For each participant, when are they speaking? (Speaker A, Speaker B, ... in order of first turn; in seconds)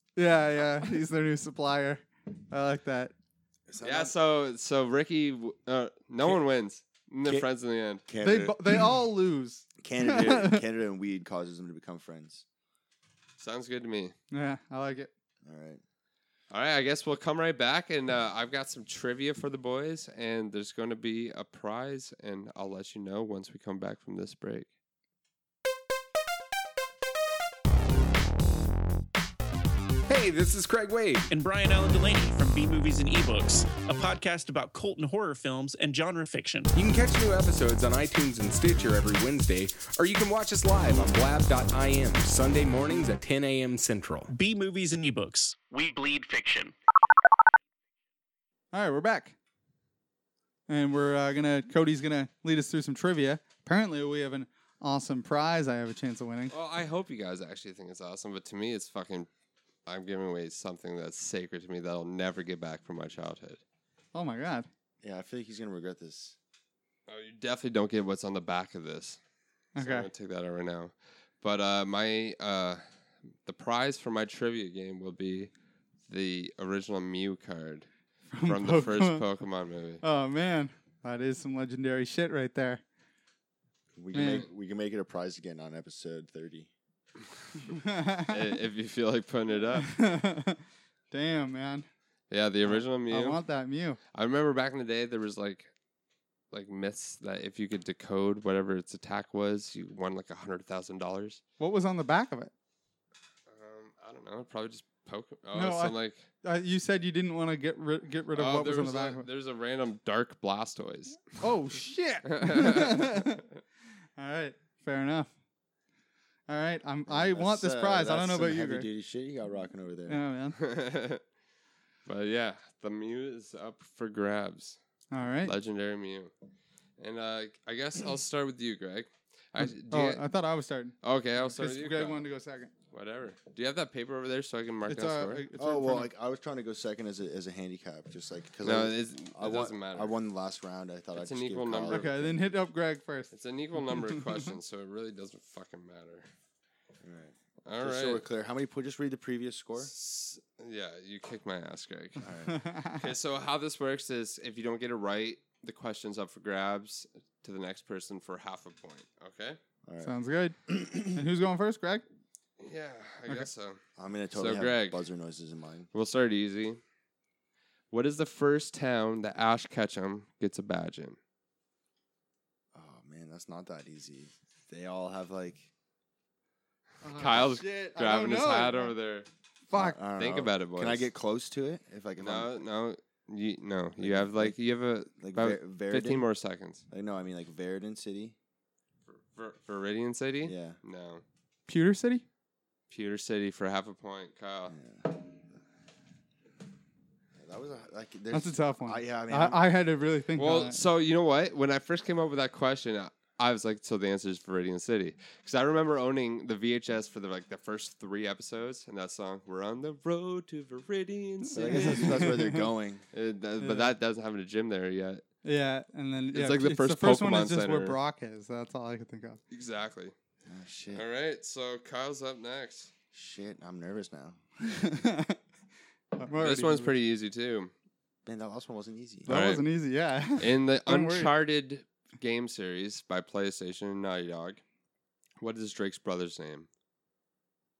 Speaker A: 0.2-3.1, 8.2-10.6, 14.3-15.1, 48.7-49.3, 50.7-56.5, 64.1-64.7, 69.8-70.1, 78.3-79.2, 80.0-82.8, 84.1-84.5, 87.7-88.3, 89.8-91.9, 92.7-94.0, 101.6-102.5, 105.5-109.3, 111.4-113.4, 114.2-115.3, 116.5-118.9, 120.1-120.6, 125.1-125.5, 129.6-132.7, 134.9-136.1, 141.9-143.3, 143.9-144.3, 152.5-153.0, 160.0-162.0, 177.0-178.9, 179.7-180.0, 191.7-192.2, 198.3-200.8, 211.4-212.6, 213.6-213.9, 215.4-219.4, 224.6-225.4, 226.1-226.9, 229.2-231.3
Speaker B: 3.7-4.1, 8.1-8.9, 9.8-12.4, 15.4-15.8, 65.0-66.4, 83.9-86.7, 117.1-120.2, 135.6-142.4, 147.0-149.9, 152.2-152.6, 159.8-160.1, 160.7-161.2, 164.0-165.9, 172.7-175.7, 179.7-182.6, 184.0-184.6, 185.2-186.3, 186.9-188.3, 190.4-190.8, 194.7-195.2, 197.4-199.6, 211.5-213.0, 220.4-221.0, 223.1-224.4, 228.2-229.3
Speaker C: 3.8-8.0, 13.4-14.1, 16.5-24.7, 56.5-59.3, 59.9-63.6, 67.1-69.2, 69.8-72.8, 73.4-75.5, 76.1-77.9, 78.4-80.0, 88.3-89.9, 92.3-93.4, 94.1-95.7, 96.5-101.4, 103.5-106.2, 108.3-111.3, 112.3-113.4, 120.6-121.2, 122.0-124.8, 125.4-126.3, 127.0-130.2, 131.0-132.3, 132.9-135.4, 138.6-140.2, 141.2-142.2, 143.3-146.3, 147.6-148.2, 149.8-152.3, 152.9-159.6, 162.6-163.8, 164.3-165.0, 165.9-166.8, 167.9-171.2, 177.1-179.3, 180.2-181.0, 182.2-186.8, 189.1-191.2, 192.9-194.8, 200.3-212.3, 213.1-215.2, 216.3-218.0, 219.5-220.1, 220.9-222.9, 226.3-227.7, 229.3-229.7, 230.4-234.6, 235.4-236.7
Speaker D: 30.1-31.2, 36.7-44.3
Speaker E: 31.3-36.7, 44.3-46.7